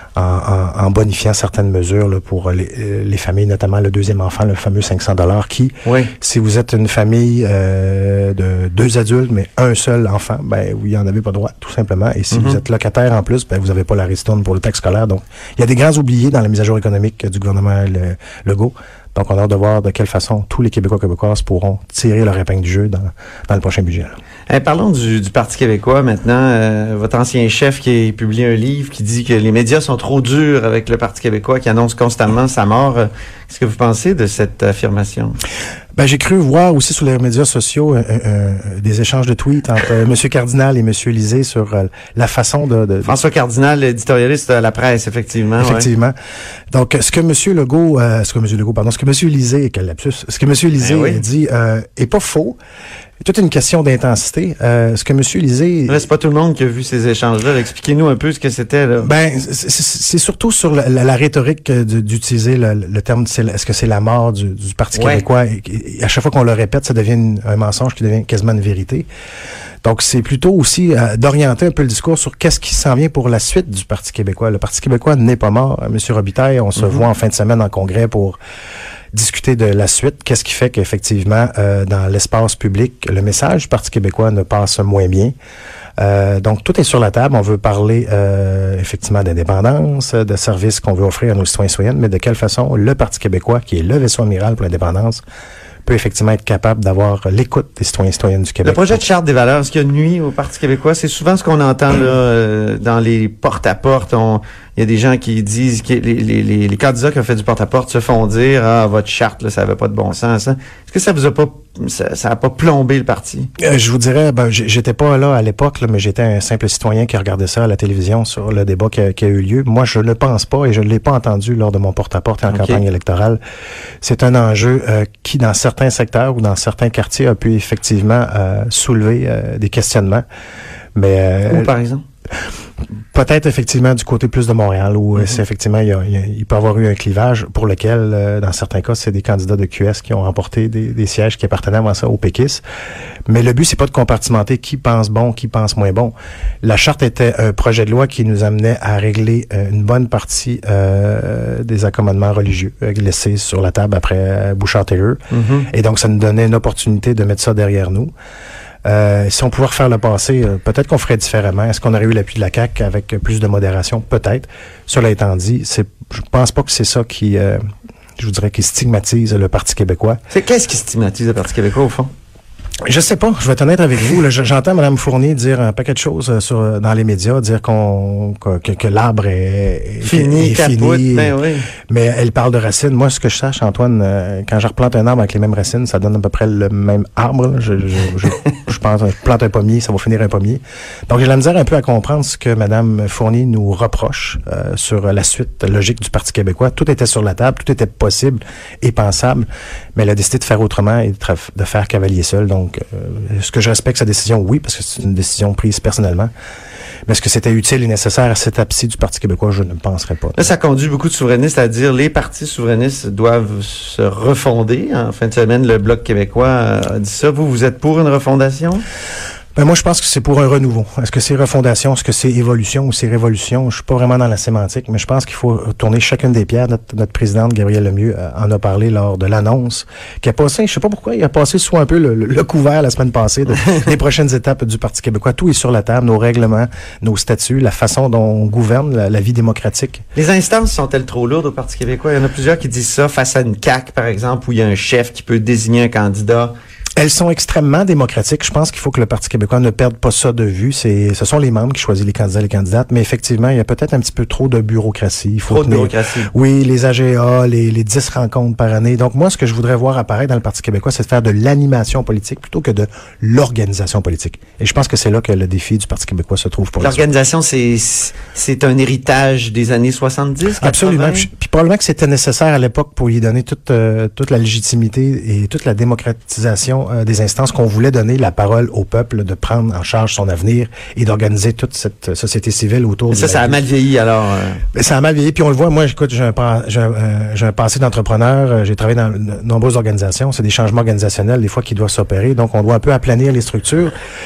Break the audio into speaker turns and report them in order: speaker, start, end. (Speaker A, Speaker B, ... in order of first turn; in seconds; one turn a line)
Speaker A: 0.1-24.1
Speaker B: 5.8-6.1
Speaker B: 12.3-12.6
Speaker B: 24.5-35.4
Speaker A: 36.0-43.1
Speaker B: 43.0-45.9
Speaker A: 45.6-46.1
Speaker A: 46.7-52.6
Speaker B: 50.8-51.2
Speaker A: 53.2-56.0
Speaker B: 55.9-59.1
Speaker A: 59.0-69.1
Speaker B: 64.9-65.2
Speaker A: 69.8-78.4
Speaker B: 76.8-77.0
Speaker A: 79.1-85.3
Speaker A: 86.0-95.2
Speaker A: 95.8-99.0
Speaker B: 98.6-113.5
Speaker A: 113.6-123.4
Speaker B: 122.5-122.8
Speaker A: 124.0-130.2
Speaker A: 130.9-131.7
Speaker B: 131.5-132.0
Speaker A: 133.1-142.6
Speaker B: 135.1-135.4
Speaker A: 143.3-158.1
Speaker B: 155.3-155.7
Speaker A: 158.8-167.6
Speaker A: 168.2-170.2
Speaker B: 170.3-172.1
Speaker A: 172.8-181.3
Speaker B: 180.0-181.7
Speaker A: 181.9-206.3
Speaker A: 207.1-210.5
Speaker B: 210.3-218.8
Speaker A: 219.5-240.0
Speaker B: 240.2-246.5
Speaker A: 246.9-267.0
Speaker B: 255.5-256.3
Speaker B: 266.8-271.3
Speaker A: 270.6-283.6
Speaker B: 283.1-284.6
Speaker A: 284.7-293.9